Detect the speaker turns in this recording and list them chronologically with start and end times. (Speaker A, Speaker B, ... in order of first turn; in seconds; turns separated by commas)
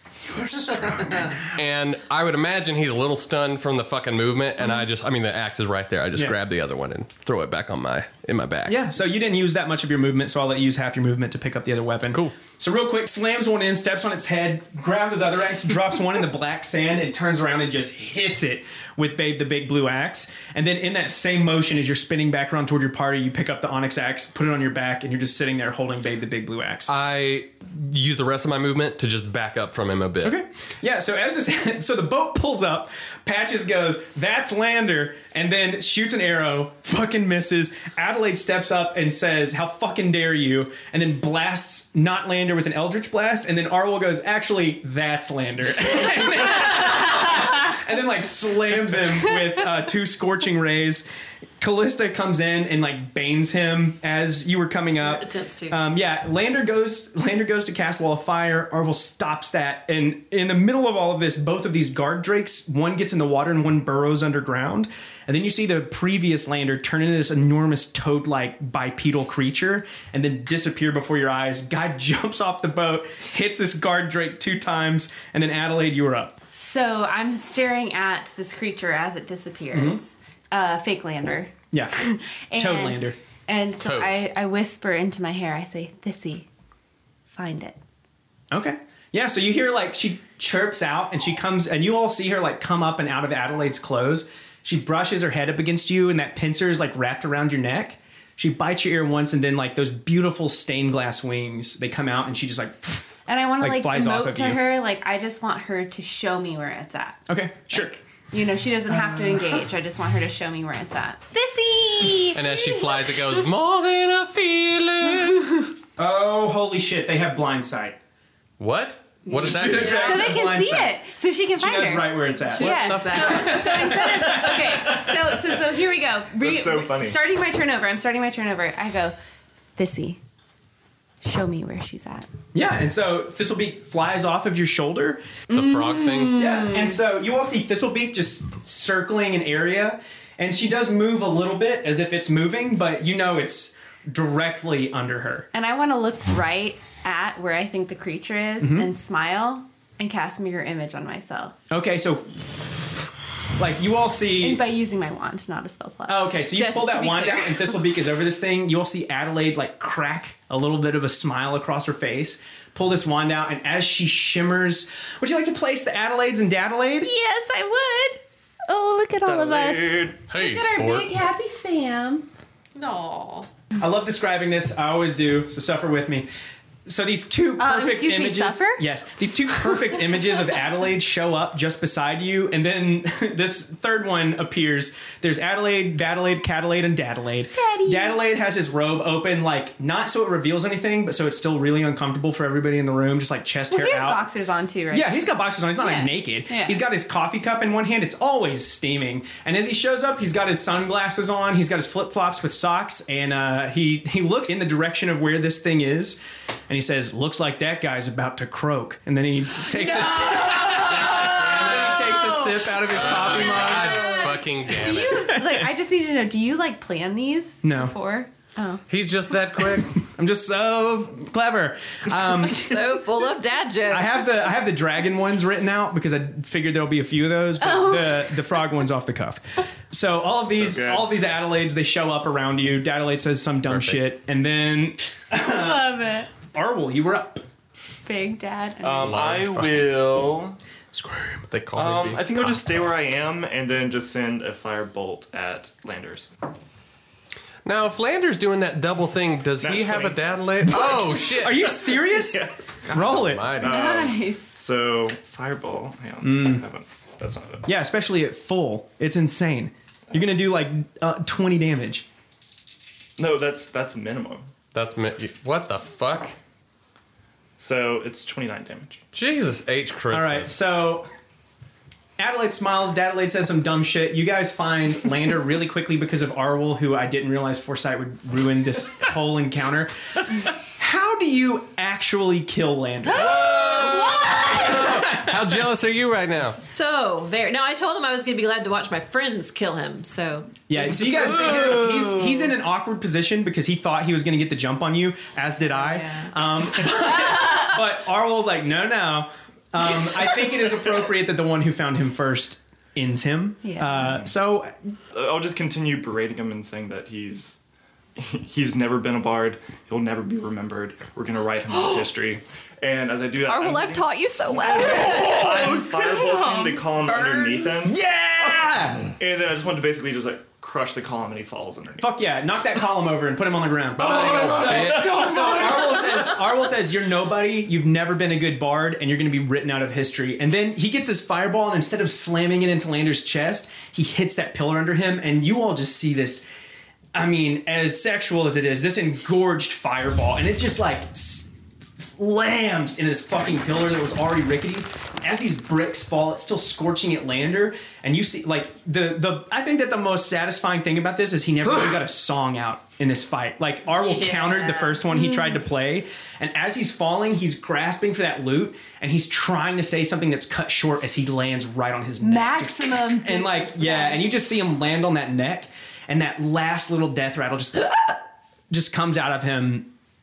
Speaker A: 0.3-1.6, Speaker B: 0.8-8.8, Speaker A: 8.7-26.9, Speaker B: 26.9-30.4, Speaker A: 30.2-51.0, Speaker A: 51.6-76.3, Speaker C: 55.0-55.8, Speaker D: 76.5-86.5, Speaker A: 79.7-80.0, Speaker A: 81.7-83.2, Speaker B: 83.8-84.2, Speaker D: 87.3-87.8, Speaker A: 88.5-104.6, Speaker D: 103.3-113.4, Speaker A: 107.3-108.0, Speaker A: 108.9-109.6, Speaker B: 112.2-115.7, Speaker A: 116.0-118.0, Speaker B: 118.6-120.4, Speaker A: 119.3-121.0, Speaker D: 119.7-129.2, Speaker A: 121.5-125.2, Speaker B: 122.5-123.9, Speaker C: 122.8-123.5, Speaker E: 126.3-127.2, Speaker D: 129.8-130.2, Speaker D: 131.2-132.3, Speaker A: 132.5-135.2, Speaker B: 135.5-136.4, Speaker D: 135.5-137.0, Speaker A: 136.3-145.5, Speaker D: 145.5-151.5, Speaker A: 148.6-148.9, Speaker A: 151.7-152.5, Speaker A: 153.6-154.6, Speaker D: 154.4-157.8, Speaker A: 156.1-167.1, Speaker D: 167.0-172.2, Speaker E: 169.2-170.2, Speaker B: 170.3-171.1, Speaker C: 172.7-173.5, Speaker A: 173.8-176.3, Speaker A: 176.8-194.2, Speaker D: 177.6-178.8, Speaker D: 187.5-188.2, Speaker D: 193.7-196.8, Speaker A: 194.9-206.2, Speaker A: 206.7-214.3, Speaker D: 210.1-211.3, Speaker B: 212.8-215.3, Speaker D: 213.1-218.8, Speaker A: 215.1-215.7, Speaker A: 217.6-217.9, Speaker B: 218.9-220.0, Speaker A: 219.9-222.7, Speaker C: 222.3-224.4, Speaker A: 223.9-235.9, Speaker D: 227.6-228.4, Speaker E: 230.6-231.1, Speaker B: 233.7-234.0, Speaker D: 235.4-236.3, Speaker A: 236.5-237.4, Speaker D: 238.0-239.3, Speaker E: 238.8-240.6, Speaker B: 239.0-240.1, Speaker A: 240.9-241.4, Speaker B: 241.5-242.7, Speaker E: 241.7-246.3, Speaker B: 247.6-251.8, Speaker E: 249.6-251.3, Speaker A: 251.4-253.6, Speaker E: 252.1-252.8, Speaker B: 252.9-253.8, Speaker E: 253.5-257.7, Speaker D: 253.6-254.6, Speaker A: 256.2-256.6, Speaker A: 257.6-262.0, Speaker E: 263.2-264.5, Speaker B: 264.7-266.4, Speaker E: 267.6-269.0, Speaker B: 269.1-270.5, Speaker A: 270.1-271.1, Speaker A: 272.2-279.9, Speaker A: 280.6-285.6, Speaker B: 283.1-286.6, Speaker C: 284.2-284.5, Speaker C: 286.6-292.3, Speaker A: 290.7-304.7, Speaker D: 303.6-304.1, Speaker E: 305.1-307.6, Speaker E: 308.1-322.1, Speaker C: 311.7-312.1, Speaker C: 313.4-315.9, Speaker A: 315.1-315.9, Speaker C: 317.2-317.7, Speaker A: 317.8-319.1, Speaker A: 322.0-336.4, Speaker B: 324.0-325.8, Speaker E: 324.2-325.7, Speaker A: 337.1-369.9, Speaker C: 353.9-355.0, Speaker D: 362.2-364.3